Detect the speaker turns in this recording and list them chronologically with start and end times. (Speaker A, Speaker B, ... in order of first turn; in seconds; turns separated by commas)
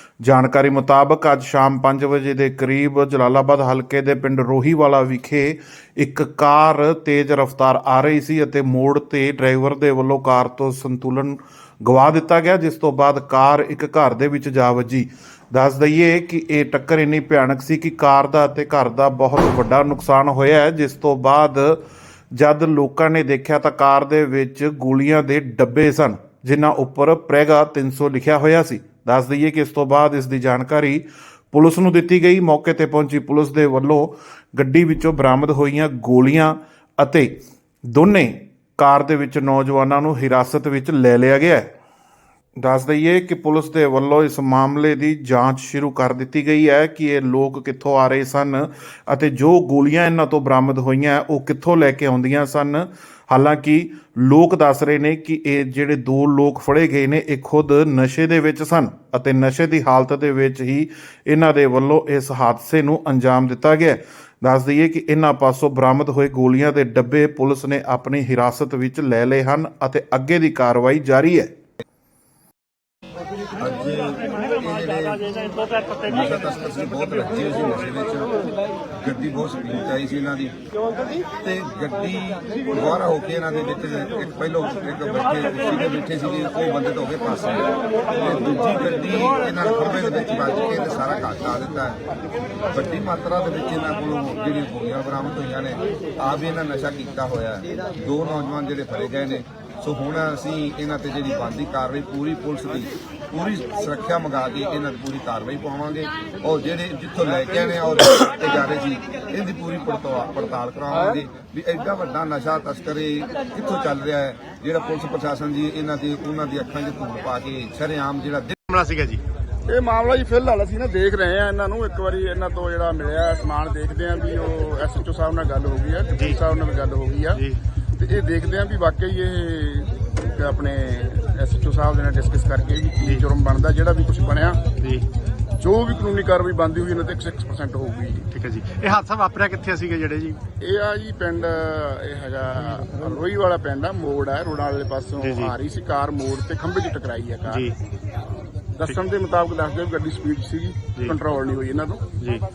Speaker A: 0.2-21.8, Speaker A: 22.3-41.7, Speaker A: 42.6-71.5, Speaker B: 73.6-75.3, Speaker B: 76.0-78.4, Speaker B: 79.0-80.6, Speaker B: 81.3-92.0, Speaker B: 92.7-118.6, Speaker C: 118.7-119.2, Speaker D: 119.7-127.4, Speaker D: 128.0-134.6, Speaker C: 134.8-135.1, Speaker D: 135.6-138.3, Speaker C: 138.3-140.4, Speaker D: 140.6-147.7, Speaker C: 145.2-145.5, Speaker C: 147.5-147.8, Speaker D: 148.7-152.1, Speaker C: 152.2-152.4